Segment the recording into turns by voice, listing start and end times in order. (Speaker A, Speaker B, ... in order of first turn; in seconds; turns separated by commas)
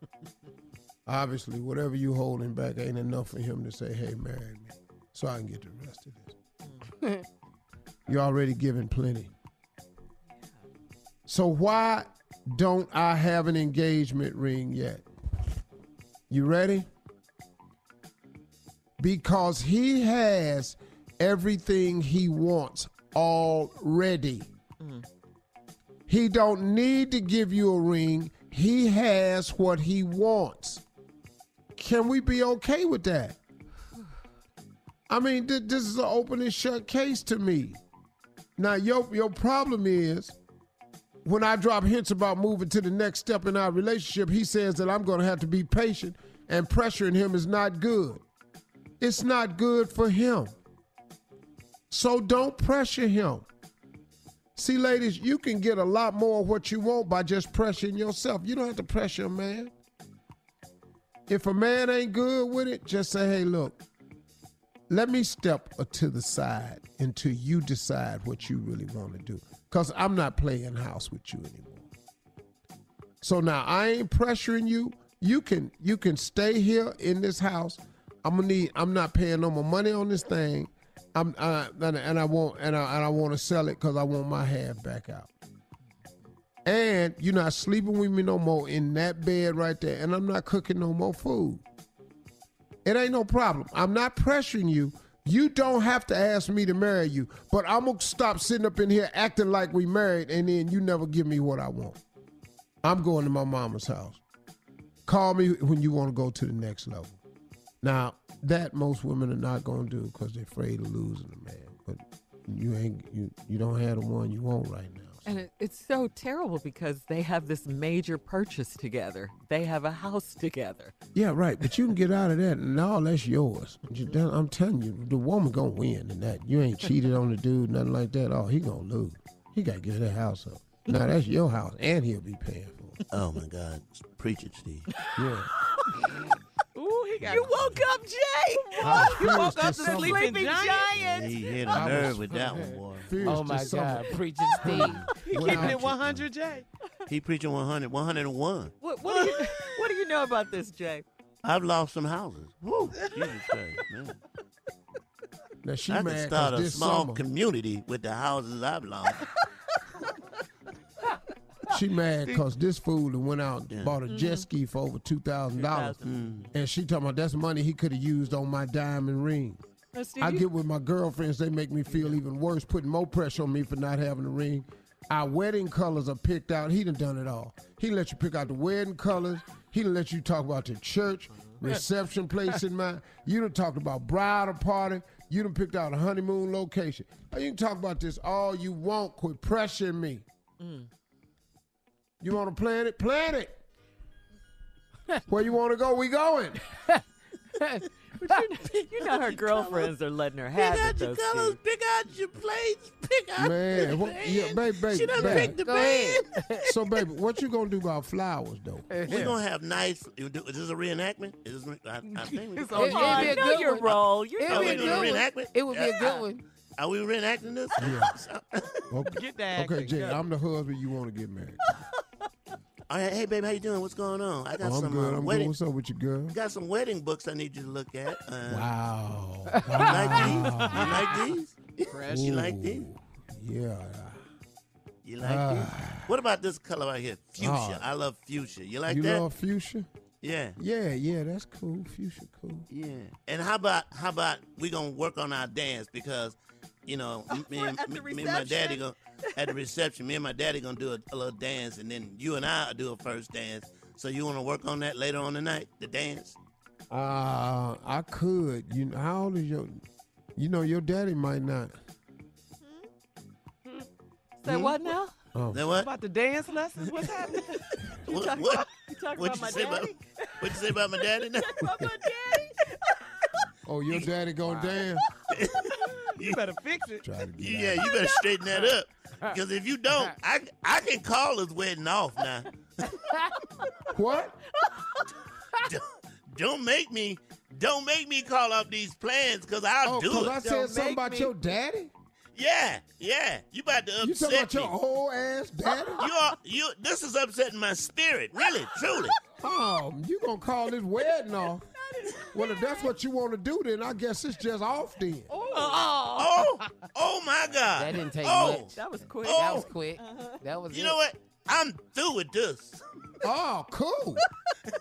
Speaker A: 1.1-6.4, Speaker A: 8.1-9.3, Speaker A: 11.2-15.1, Speaker A: 16.3-16.9, Speaker A: 19.0-24.5, Speaker B: 24.8-25.0, Speaker A: 26.1-30.8, Speaker A: 31.8-33.4, Speaker A: 35.1-37.8, Speaker A: 38.6-40.4, Speaker A: 41.2-48.2, Speaker A: 49.0-50.5, Speaker A: 51.9-53.5, Speaker A: 54.5-59.7, Speaker A: 61.3-63.8, Speaker A: 64.9-71.9, Speaker A: 73.2-85.3, Speaker A: 86.6-91.6, Speaker A: 92.8-102.0, Speaker A: 102.8-104.2, Speaker A: 105.0-107.2, Speaker A: 107.8-115.2, Speaker B: 115.2-120.9, Speaker A: 121.1-133.0, Speaker C: 133.1-134.9, Speaker A: 135.2-135.5, Speaker D: 136.7-137.8, Speaker B: 137.2-141.4, Speaker A: 138.8-140.3, Speaker D: 138.8-140.9, Speaker C: 140.9-143.1, Speaker A: 141.7-142.4, Speaker A: 143.0-146.0, Speaker E: 143.2-145.1, Speaker D: 144.7-146.7, Speaker C: 145.4-146.0, Speaker C: 147.1-148.7, Speaker B: 148.8-151.0, Speaker C: 151.4-154.2, Speaker A: 155.6-157.2, Speaker C: 155.9-159.2, Speaker A: 161.7-166.0, Speaker B: 164.1-164.4, Speaker B: 165.5-166.3, Speaker C: 166.0-166.5, Speaker A: 166.5-169.6, Speaker B: 169.9-170.4, Speaker A: 170.2-190.2, Speaker B: 190.6-190.9, Speaker A: 192.2-193.6, Speaker A: 195.3-196.7, Speaker E: 197.6-198.4, Speaker B: 198.2-201.6, Speaker C: 199.3-199.9, Speaker C: 200.5-206.3, Speaker A: 203.4-205.6, Speaker E: 205.2-206.7, Speaker A: 206.6-209.3, Speaker E: 208.9-209.3, Speaker C: 209.1-213.9, Speaker D: 212.1-213.5, Speaker E: 212.8-216.4, Speaker B: 212.8-215.2, Speaker C: 214.5-216.2, Speaker C: 216.8-218.8, Speaker A: 217.8-218.1, Speaker A: 218.9-221.6, Speaker D: 219.0-220.2, Speaker C: 222.9-225.5, Speaker A: 224.6-226.3, Speaker C: 226.3-228.7, Speaker A: 228.5-231.0, Speaker E: 229.5-229.8, Speaker C: 229.8-232.9, Speaker D: 230.5-231.2, Speaker D: 231.9-232.3, Speaker A: 232.0-234.2, Speaker C: 235.0-239.2, Speaker A: 235.2-236.1, Speaker A: 237.4-237.8, Speaker A: 238.9-239.9, Speaker C: 240.2-240.6, Speaker A: 240.6-242.7, Speaker C: 242.7-256.4, Speaker B: 247.3-248.8, Speaker A: 256.9-259.8, Speaker A: 260.4-261.7, Speaker B: 264.4-265.1, Speaker A: 264.4-264.7, Speaker A: 265.3-265.7, Speaker C: 265.5-265.9, Speaker D: 265.7-267.5, Speaker B: 267.5-270.6, Speaker C: 268.1-271.6, Speaker B: 271.4-272.7, Speaker A: 273.6-275.0, Speaker C: 275.3-276.4, Speaker D: 276.2-277.1, Speaker A: 277.0-277.9, Speaker C: 277.4-282.5, Speaker E: 282.8-283.3, Speaker A: 283.9-284.4, Speaker B: 284.6-285.0, Speaker C: 285.6-290.4, Speaker A: 289.8-291.9, Speaker B: 290.4-291.3, Speaker C: 292.3-294.7, Speaker A: 294.0-296.0, Speaker C: 296.0-299.1, Speaker A: 299.4-301.6, Speaker B: 302.0-302.9, Speaker A: 302.3-305.3, Speaker B: 305.3-306.3, Speaker D: 305.6-305.9, Speaker C: 306.1-309.7, Speaker E: 307.7-308.7, Speaker B: 308.7-310.4, Speaker E: 309.2-311.0, Speaker C: 310.7-312.8, Speaker A: 313.2-314.2